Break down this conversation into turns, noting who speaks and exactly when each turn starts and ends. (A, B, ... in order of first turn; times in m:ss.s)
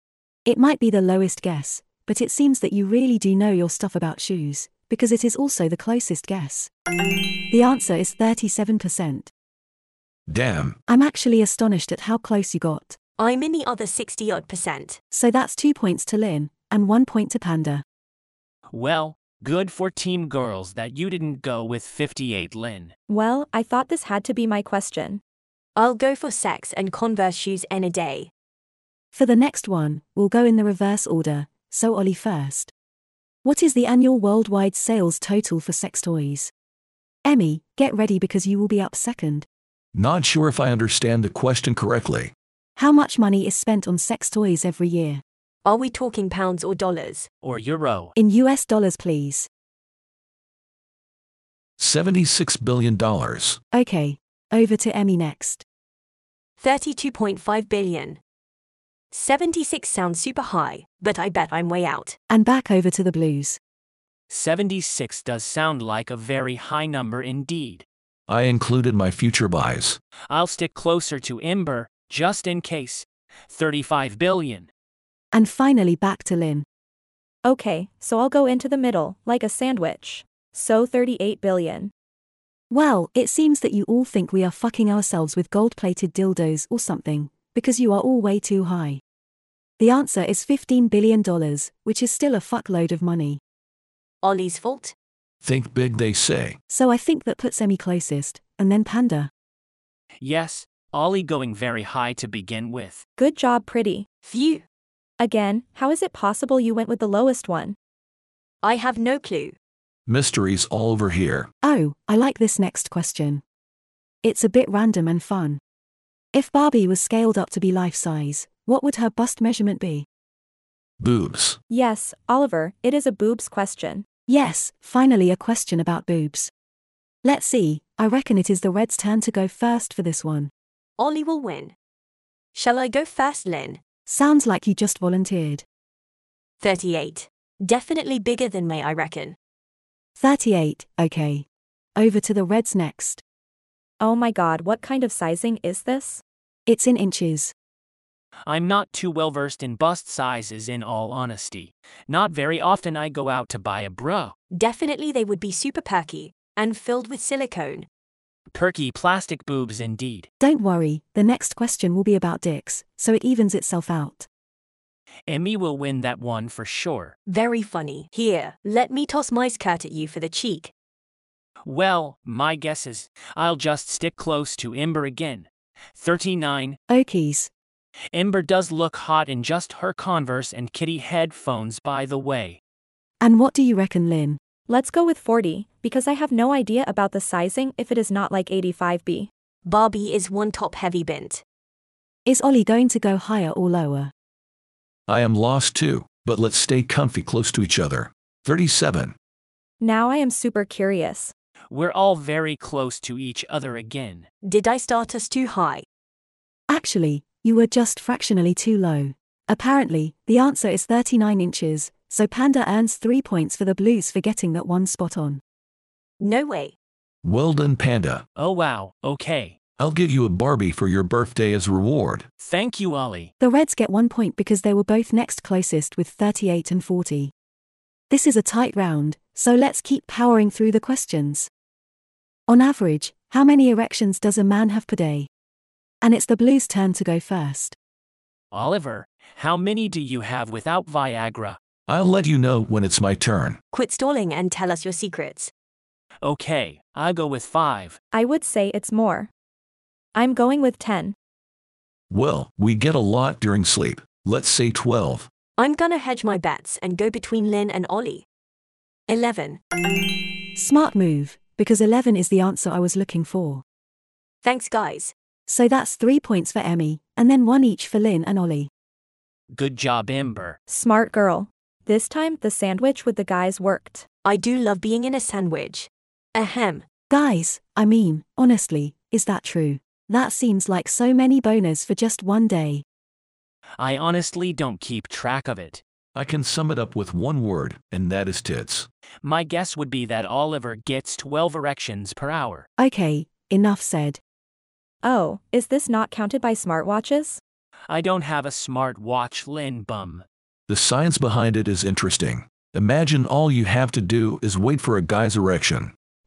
0:00.5-0:06.7 A
0:07.5-0:09.3 A
0:10.3-0:10.8 B
0:10.9-0:13.0 A
0:13.2-0:15.0 C
0:15.1-0:17.8 A
0:18.7-0:22.9 D
0:23.1-0:25.2 E
0:25.8-0:28.3 C
0:29.1-0:32.7 A
0:33.4-0:36.5 A
0:37.2-0:39.5 A
0:40.0-0:42.3 B
0:42.8-0:45.2 A
0:45.6-0:47.3 C
0:47.4-0:48.1 D
0:48.2-0:49.5 A
0:51.8-0:53.6 B
0:53.7-0:55.6 A
0:56.6-0:58.2 C
0:59.1-1:02.2 C
1:02.3-1:03.6 A
1:04.3-1:07.8 D
1:08.3-1:10.0 B
1:10.3-1:14.7 D
1:15.3-1:16.7 A
1:17.4-1:21.9 E
1:22.7-1:29.0 A
1:29.8-1:33.4 A
1:34.2-1:34.9 C
1:35.4-1:36.6 B
1:36.7-1:39.3 A
1:40.2-1:43.0 D
1:43.2-1:44.1 E
1:44.2-1:44.6 C
1:45.2-1:47.8 E
1:48.6-1:49.6 C
1:50.1-1:51.5 B
1:51.6-1:53.4 A
1:54.2-1:55.6 A
1:56.3-2:00.1 A
2:01.0-2:01.6 B
2:01.7-2:04.1 E
2:04.3-2:06.5 A
2:07.2-2:10.5 A
2:11.0-2:11.7 C
2:12.5-2:13.8 C
2:14.1-2:15.6 A
2:16.6-2:19.4 C
2:20.2-2:23.2 A
2:24.0-2:26.2 E
2:26.7-2:27.5 A
2:28.5-2:34.3 D
2:34.5-2:37.9 C
2:38.5-2:40.3 D
2:40.4-2:44.3 A
2:45.3-2:47.2 D
2:47.3-2:50.7 C
2:51.6-2:56.8 D
2:56.9-2:57.5 A
2:58.1-3:02.6 D
3:03.2-3:04.4 A
3:04.7-3:09.3 E
3:09.6-3:11.4 C
3:12.3-3:14.1 A
3:15.1-3:19.1 B
3:19.8-3:21.3 E
3:21.7-3:24.3 D
3:24.4-3:25.8 C
3:26.7-3:35.4 A
3:36.2-3:36.8 C
3:37.2-3:38.2 B
3:38.4-3:39.6 D
3:39.8-3:42.3 B
3:42.4-3:43.3 D
3:43.4-3:47.3 A
3:48.1-3:51.5 A
3:52.5-3:55.3 A
3:56.0-3:57.8 A
3:58.5-4:01.6 D
4:01.9-4:03.6 B
4:03.7-4:05.5 C
4:06.2-4:08.0 D
4:08.1-4:09.3 E
4:10.2-4:11.2 E
4:12.1-4:15.3 B
4:15.6-4:18.2 C
4:19.1-4:19.6 C
4:20.6-4:23.6 A
4:24.4-4:25.1 C
4:25.5-4:28.7 A
4:29.5-4:30.6 D
4:30.7-4:34.1 E
4:34.2-4:36.8 C
4:37.1-4:42.8 A
4:43.8-4:45.8 D
4:46.2-4:48.9 B
4:49.2-4:52.7 D
4:52.8-4:54.2 A
4:55.0-4:57.4 E
4:57.9-5:00.2 D
5:00.7-5:05.9 B